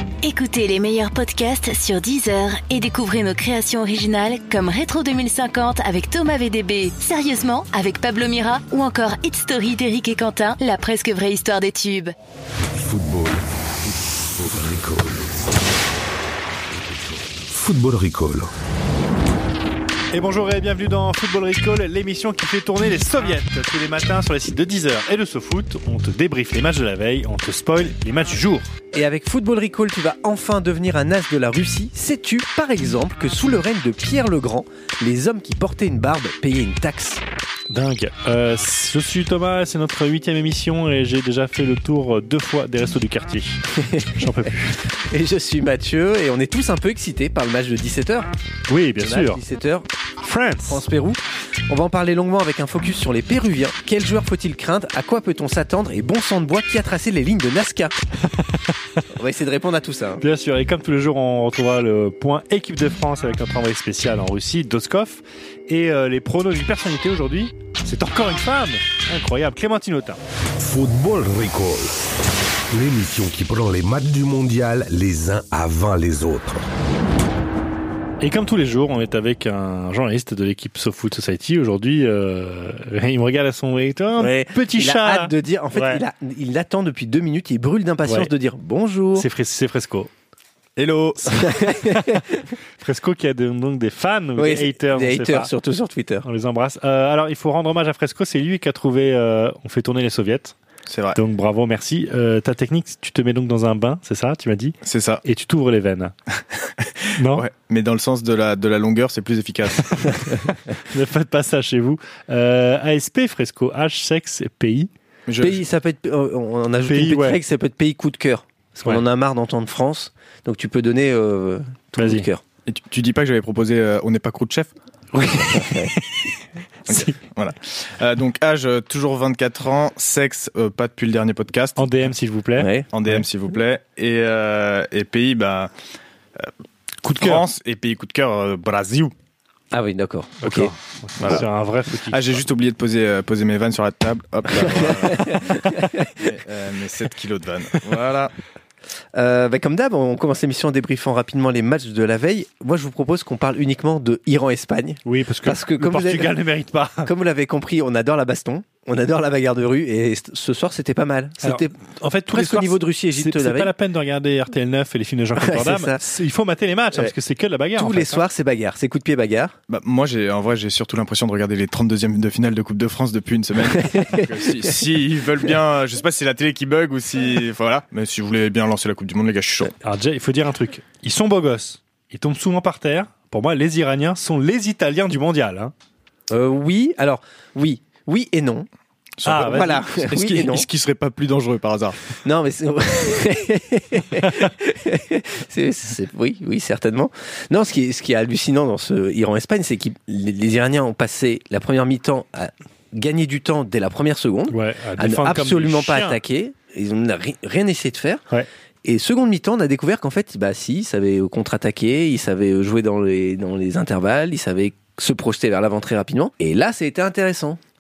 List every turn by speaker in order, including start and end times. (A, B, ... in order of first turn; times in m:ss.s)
0:00.2-0:12.1 A
0:12.7-0:15.6 B
0:16.7-0:18.5 B
0:20.1-0:28.7 C
0:28.9-0:37.2 D
0:37.7-0:43.6 C
0:43.8-0:44.2 D
0:44.2-0:44.8 C
0:45.1-0:48.3 D
0:48.7-0:49.4 C
0:49.0-0:49.9 D
0:50.2-0:50.8 C
0:50.7-0:58.0 D
0:58.3-0:58.8 C
0:59.2-1:00.2 D
1:00.2-1:10.2 C
1:10.6-1:12.0 B
1:12.7-1:16.6 B
1:18.2-1:26.0 C
1:24.2-1:29.3 D
1:28.1-1:28.3 C
1:29.1-1:30.1 C
1:30.8-1:31.5 E
1:31.4-1:32.2 D
1:31.7-1:32.2 C
1:32.8-1:35.5 C
1:34.4-1:36.2 D
1:36.2-1:40.6 C
1:40.9-1:41.2 E
1:41.1-1:46.1 C
1:44.8-1:45.2 E
1:46.8-1:50.3 E
1:47.2-1:47.5 C
1:50.5-1:54.9 C
1:55.3-1:55.6 E
1:55.4-2:02.4 D
1:56.9-1:57.4 C
2:02.0-2:02.3 C
2:02.7-2:04.7 E
2:05.1-2:06.2 C
2:05.5-2:05.9 D
2:06.9-2:07.2 C
2:06.9-2:11.9 E
2:11.8-2:13.2 C
2:12.6-2:12.9 D
2:12.9-2:15.7 E
2:17.0-2:17.4 C
2:17.1-2:19.1 E
2:19.7-2:20.7 D
2:20.4-2:22.4 C
2:21.2-2:21.5 E
2:22.1-2:25.6 E
2:24.6-2:26.1 D
2:26.2-2:28.3 E
2:29.2-2:36.3 D
2:35.1-2:37.1 C
2:37.0-2:41.8 D
2:41.4-2:48.3 C
2:42.3-2:43.7 D
2:45.4-2:46.0 D
2:47.8-2:49.5 D
2:49.7-2:59.7 E
2:53.8-2:54.8 D
2:59.8-3:05.7 C
3:06.3-3:08.7 D
3:09.2-3:12.0 E
3:09.3-3:09.8 C
3:09.3-3:10.7 D
3:12.2-3:28.2 D
3:24.5-3:26.2 C
3:28.8-3:37.6 D